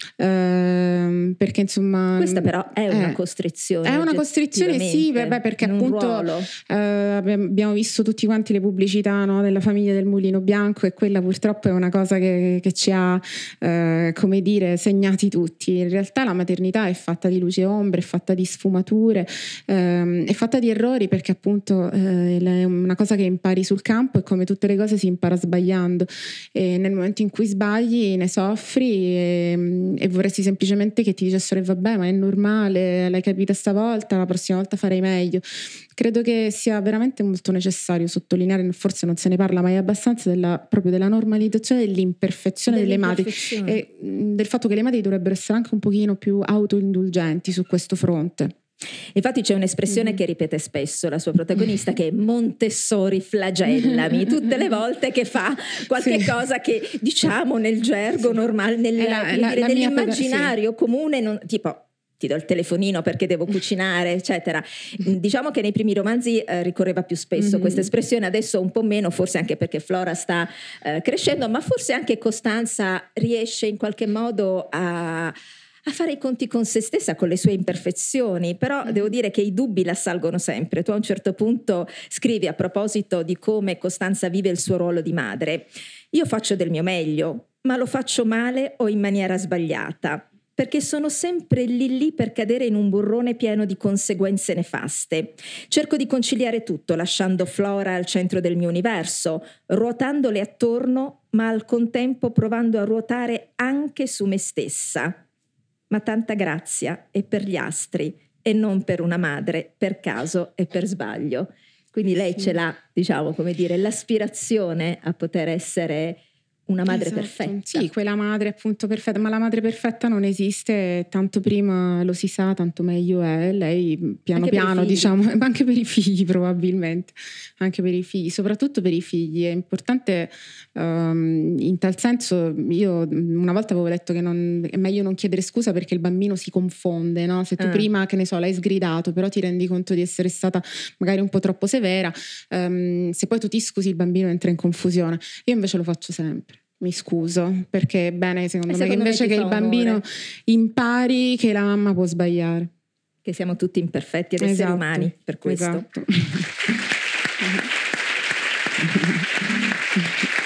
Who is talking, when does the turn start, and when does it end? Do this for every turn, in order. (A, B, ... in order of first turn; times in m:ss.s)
0:00.2-0:03.2 A
0:02.2-0:06.5 B
0:03.8-0:48.5 A
0:42.7-0:43.8 B
0:49.1-1:45.2 B
0:53.7-0:54.5 A
0:56.0-0:56.3 A
0:59.0-1:00.5 A
1:07.4-1:07.9 A
1:45.9-1:57.9 B
1:56.9-2:32.7 A
2:04.3-2:05.1 B
2:17.6-2:17.8 B
2:28.7-2:30.0 B
2:33.2-2:35.8 B
2:34.4-2:36.4 A